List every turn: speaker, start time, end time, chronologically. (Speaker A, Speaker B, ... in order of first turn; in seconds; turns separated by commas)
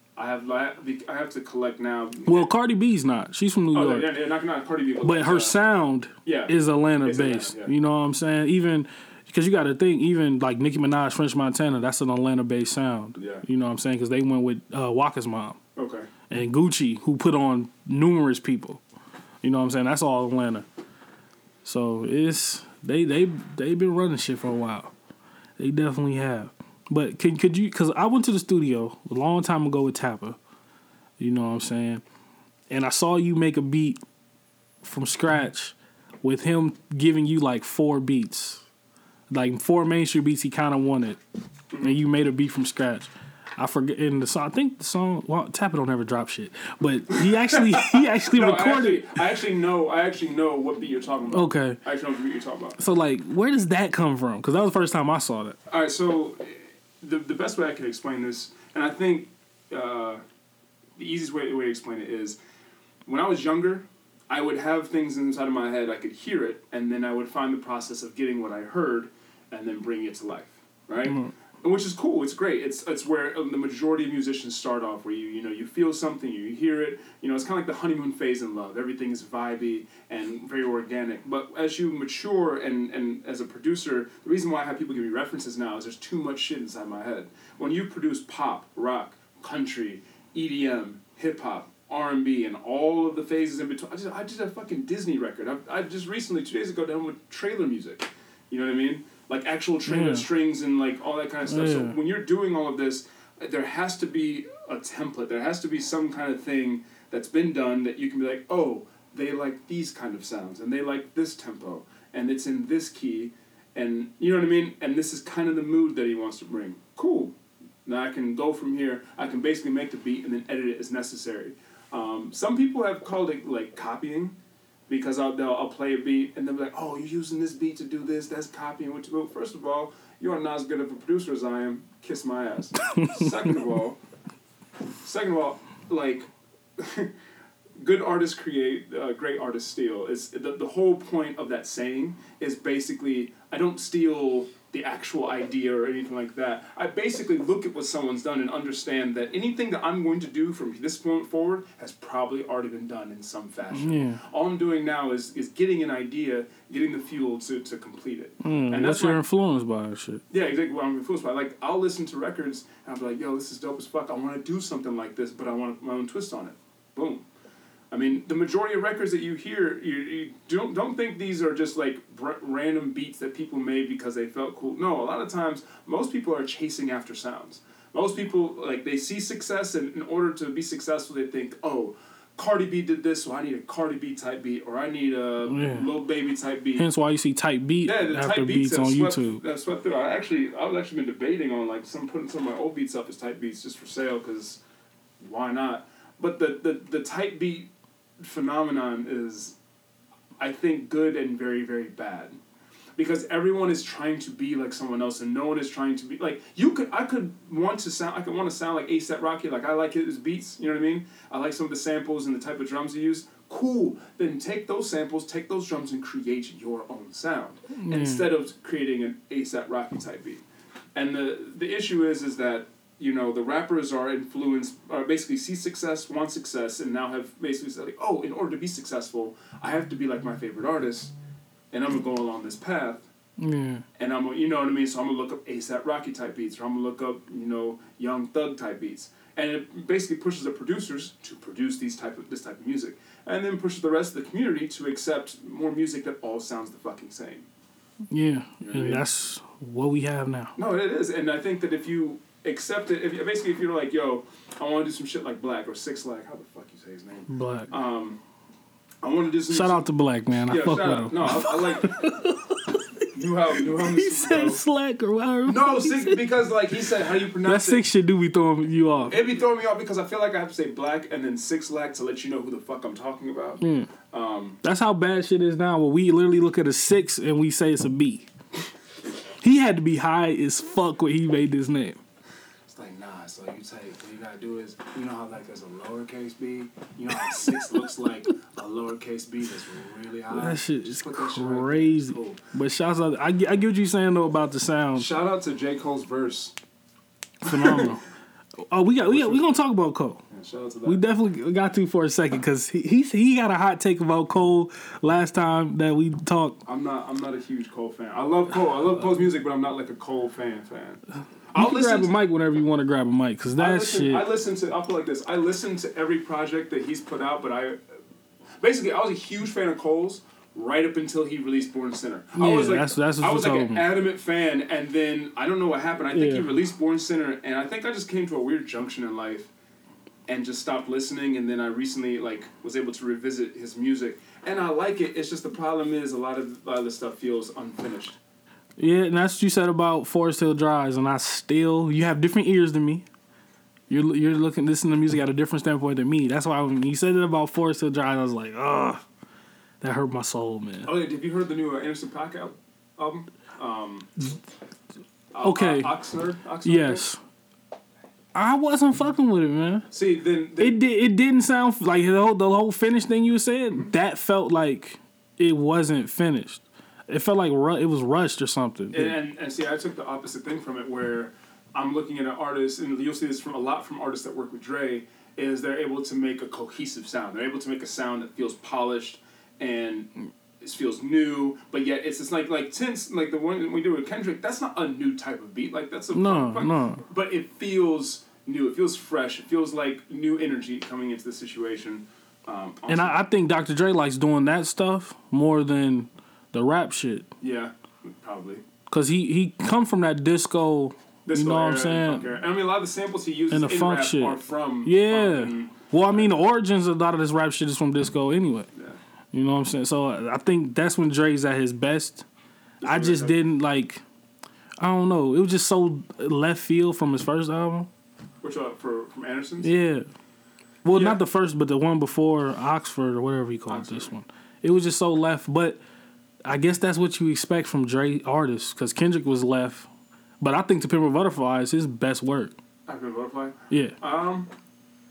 Speaker A: 0.2-2.5, Speaker B: 2.3-4.1, Speaker A: 3.7-5.5, Speaker B: 5.0-15.6, Speaker A: 6.2-7.7, Speaker A: 13.2-13.4, Speaker A: 15.8-16.1, Speaker B: 16.3-18.8, Speaker B: 19.4-20.6, Speaker B: 21.6-24.9, Speaker B: 25.6-30.4, Speaker B: 31.2-32.0, Speaker B: 32.7-34.0, Speaker B: 34.8-38.6, Speaker B: 39.3-41.2, Speaker A: 41.7-42.0, Speaker B: 41.8-49.1, Speaker A: 47.1-52.8, Speaker B: 51.3-51.8, Speaker B: 52.8-55.6, Speaker A: 55.7-60.2, Speaker A: 61.0-62.4, Speaker A: 63.0-124.3, Speaker B: 71.0-71.3, Speaker B: 99.8-100.2, Speaker B: 101.5-101.9, Speaker A: 124.9-134.0, Speaker B: 132.9-133.3, Speaker A: 135.0-137.1, Speaker A: 137.8-159.2, Speaker B: 153.7-154.2, Speaker B: 158.4-160.2, Speaker A: 160.3-167.2, Speaker A: 167.9-186.9, Speaker B: 185.5-185.9, Speaker B: 186.8-189.4, Speaker A: 187.8-194.6, Speaker A: 195.2-197.7, Speaker A: 198.2-199.6, Speaker A: 200.4-202.4, Speaker A: 203.0-220.4, Speaker B: 217.7-218.3, Speaker A: 220.9-231.1, Speaker A: 231.7-233.1, Speaker B: 233.4-233.8, Speaker A: 234.0-247.4, Speaker B: 248.1-250.5, Speaker A: 248.6-249.0, Speaker A: 250.6-258.2, Speaker B: 257.3-257.7, Speaker A: 259.0-259.9, Speaker B: 259.5-266.2, Speaker A: 260.4-262.2, Speaker A: 263.1-264.6, Speaker A: 265.4-267.8, Speaker B: 267.4-269.1, Speaker A: 269.1-274.6, Speaker B: 273.6-273.9, Speaker B: 274.6-278.3, Speaker B: 279.4-282.0, Speaker A: 282.7-292.4, Speaker B: 290.3-295.1, Speaker A: 294.9-296.5, Speaker A: 297.4-298.0, Speaker B: 297.4-298.0, Speaker B: 298.6-300.2, Speaker A: 299.1-299.4, Speaker A: 300.3-301.0, Speaker B: 300.8-306.6, Speaker A: 306.6-312.1, Speaker B: 311.5-314.3, Speaker A: 313.6-317.8, Speaker A: 318.6-329.5, Speaker B: 322.3-323.9, Speaker B: 326.1-326.5, Speaker A: 330.3-338.2, Speaker B: 338.8-343.0, Speaker B: 343.9-349.0, Speaker B: 349.8-350.9, Speaker A: 350.8-354.3, Speaker A: 355.3-357.1, Speaker B: 355.4-355.9, Speaker B: 356.6-357.2, Speaker B: 358.3-359.9, Speaker A: 359.9-360.8, Speaker B: 360.6-369.2, Speaker A: 368.9-380.1, Speaker A: 380.6-393.2, Speaker B: 386.1-387.0, Speaker B: 392.9-397.3, Speaker A: 397.4-398.6, Speaker B: 398.9-402.3, Speaker A: 401.2-406.4, Speaker B: 403.5-408.7, Speaker B: 409.3-412.3, Speaker A: 412.8-413.4, Speaker B: 412.8-414.0, Speaker B: 414.8-417.9, Speaker A: 418.4-419.7, Speaker B: 419.6-420.1, Speaker B: 420.8-425.8, Speaker A: 420.9-421.2, Speaker A: 423.7-424.1, Speaker B: 426.4-429.9, Speaker B: 430.4-432.5, Speaker A: 432.9-434.5, Speaker B: 433.7-433.9